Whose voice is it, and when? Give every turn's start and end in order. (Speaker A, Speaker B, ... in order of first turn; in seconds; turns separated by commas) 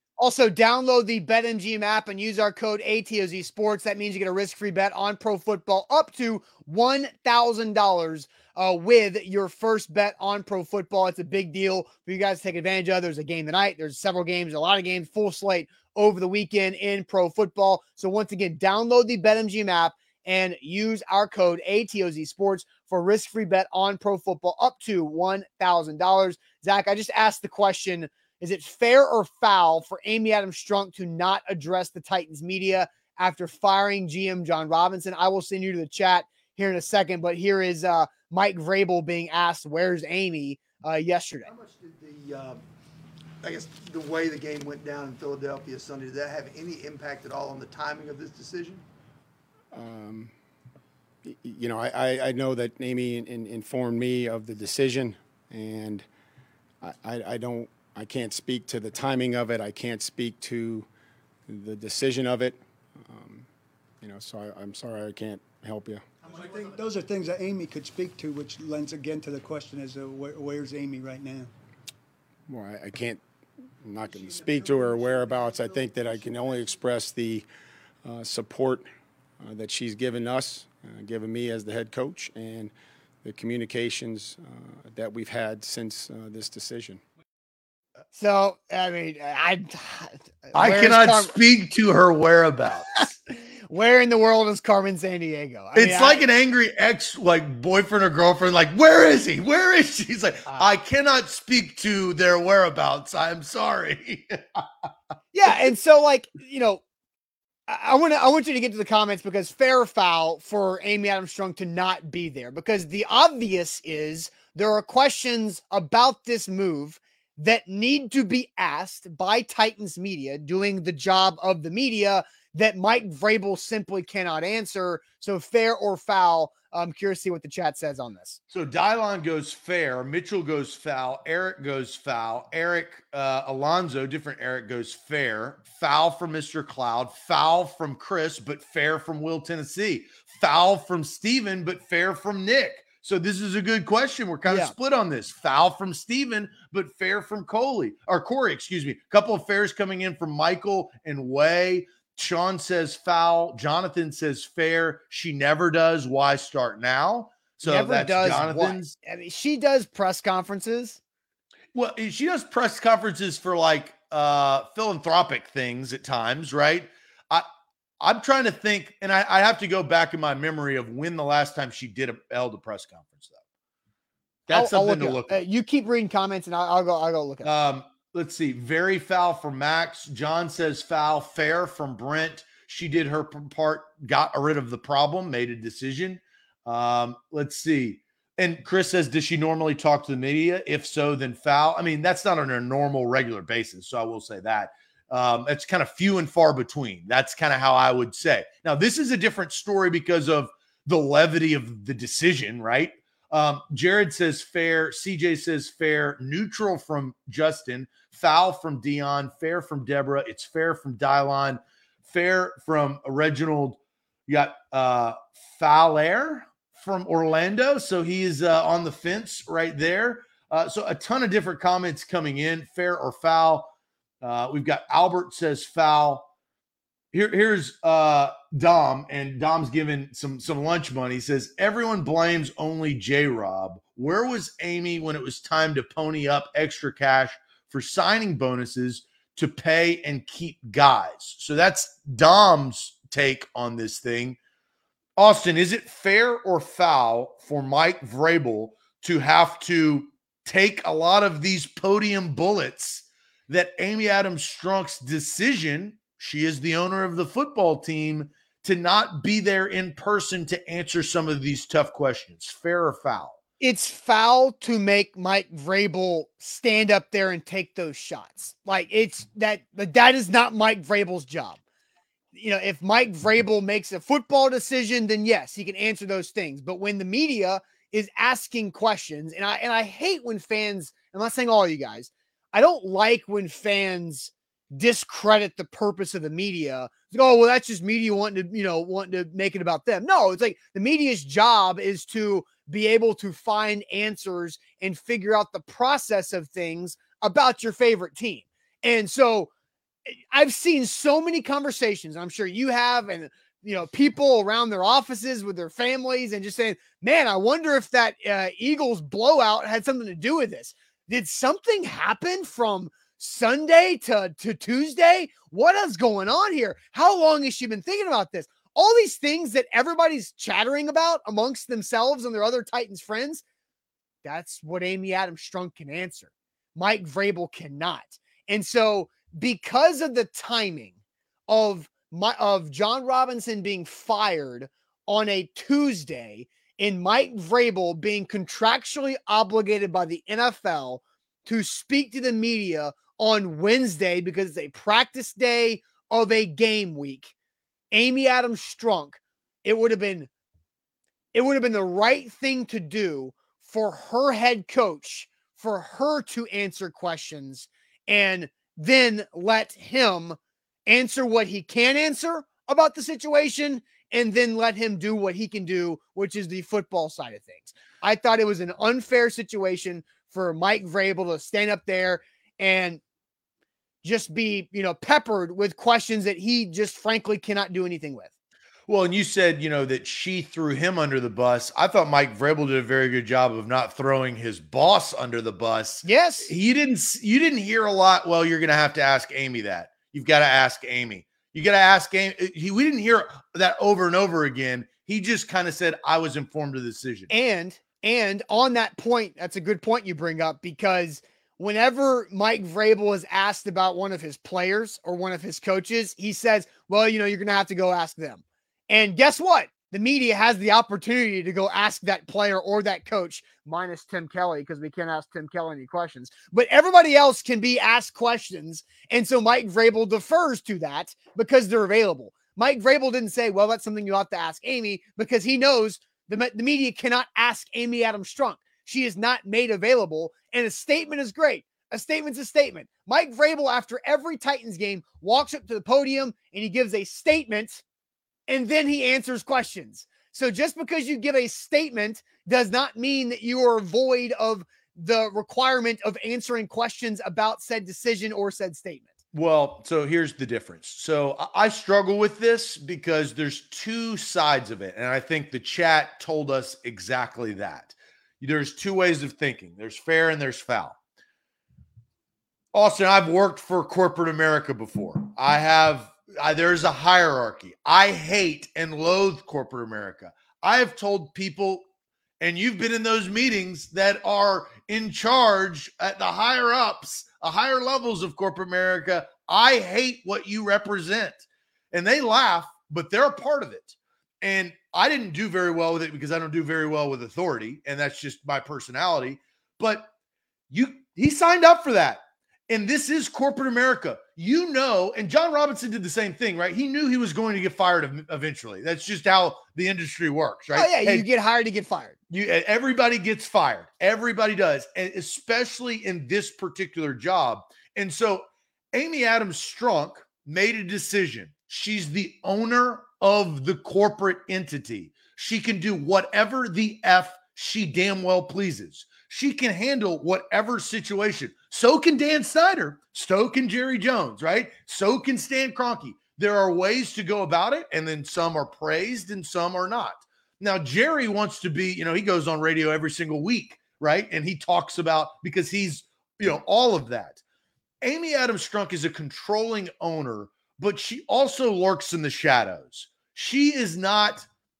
Speaker A: 0.2-41.5, Speaker B: 41.5-42.6, Speaker B: 43.4-48.8, Speaker C: 49.7-50.3, Speaker C: 51.2-56.0, Speaker C: 56.8-60.9, Speaker C: 61.5-63.5, Speaker C: 64.0-66.0, Speaker D: 66.2-71.5, Speaker C: 72.5-73.2, Speaker C: 73.8-77.5, Speaker D: 74.0-76.8, Speaker C: 78.0-78.9, Speaker C: 79.4-82.7, Speaker C: 83.2-87.0, Speaker A: 88.1-91.3, Speaker E: 90.5-93.1, Speaker A: 93.7-96.2, Speaker E: 95.7-104.6, Speaker A: 105.3-106.8, Speaker A: 107.7-128.4, Speaker E: 128.5-158.9, Speaker A: 144.4-144.7, Speaker A: 157.6-161.0, Speaker E: 161.7-167.4, Speaker E: 168.0-173.4, Speaker E: 174.5-175.3, Speaker A: 174.5-177.5, Speaker E: 177.4-223.7, Speaker E: 224.2-226.3, Speaker E: 227.1-244.4, Speaker E: 245.2-263.4, Speaker A: 263.6-271.6, Speaker A: 272.3-299.5, Speaker A: 300.3-323.4, Speaker A: 324.2-330.9, Speaker A: 331.5-347.3, Speaker A: 347.9-350.3, Speaker A: 351.3-373.0, Speaker A: 374.0-378.3, Speaker E: 378.9-397.3, Speaker A: 386.0-386.5, Speaker A: 397.3-437.8, Speaker A: 438.5-449.1, Speaker E: 449.3-460.9, Speaker E: 462.7-471.8, Speaker E: 472.4-490.1, Speaker E: 490.7-501.2, Speaker A: 500.7-502.1, Speaker E: 502.3-537.4, Speaker E: 538.0-544.5